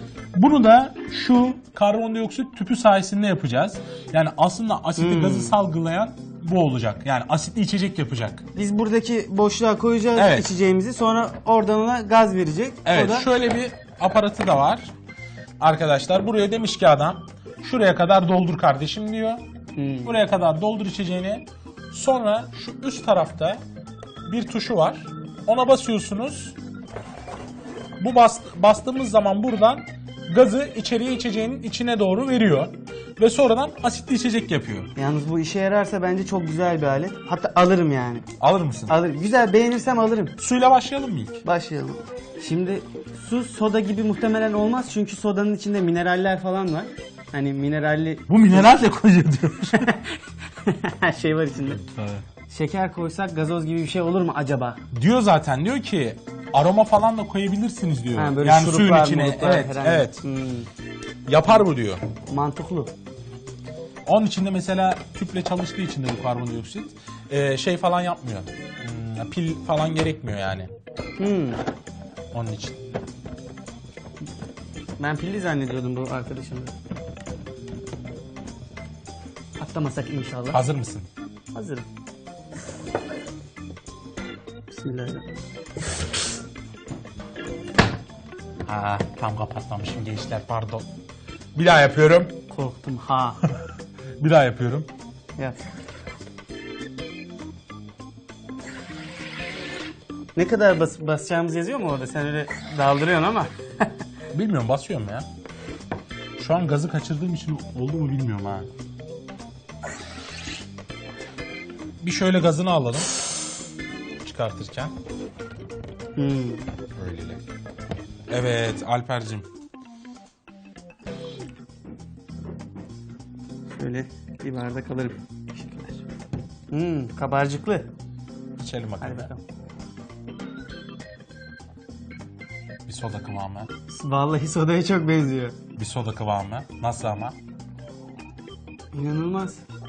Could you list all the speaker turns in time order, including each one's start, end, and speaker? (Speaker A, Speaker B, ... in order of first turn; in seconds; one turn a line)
Speaker A: 0.3-8.4
Speaker B: 5.0-5.5
Speaker B: 8.6-13.3
Speaker A: 10.2-10.5
Speaker A: 12.8-14.9
Speaker A: 15.6-19.4
Speaker B: 19.8-20.2
Speaker A: 20.1-23.6
Speaker A: 24.3-26.6
Speaker A: 28.0-34.9
Speaker B: 35.0-38.2
Speaker A: 38.4-38.9
Speaker B: 38.9-40.3
Speaker A: 40.4-41.4
Speaker B: 41.4-48.8
Speaker A: 48.3-49.9
Speaker B: 49.8-51.8
Speaker A: 51.8-52.2
Speaker B: 52.5-54.8
Speaker A: 54.9-60.2
Speaker B: 58.1-60.7
Speaker A: 61.3-62.0
Speaker B: 62.3-62.9
Speaker A: 64.1-70.7
Speaker B: 71.2-71.7
Speaker A: 72.3-72.8
Speaker B: 75.0-76.7
Speaker B: 79.6-80.6
Speaker A: 80.5-81.1
Speaker B: 81.5-81.9
Speaker B: 84.7-85.3
Speaker A: 88.7-90.9
Speaker A: 91.6-92.4
Speaker B: 92.5-93.4
Speaker A: 94.2-94.9
Speaker B: 100.3-103.9
Speaker A: 104.3-105.3
Speaker A: 106.4-108.7
Speaker A: 112.0-113.2
Speaker A: 114.2-114.9
Speaker B: 116.2-116.6
Speaker A: 117.0-117.4
Speaker A: 118.3-119.5
Speaker B: 123.7-126.0
Speaker B: 126.7-127.9
Speaker A: 128.6-129.3
Speaker B: 129.0-129.4
Speaker A: 132.9-133.7
Speaker B: 133.9-135.6
Speaker A: 135.8-137.4
Speaker B: 138.9-139.6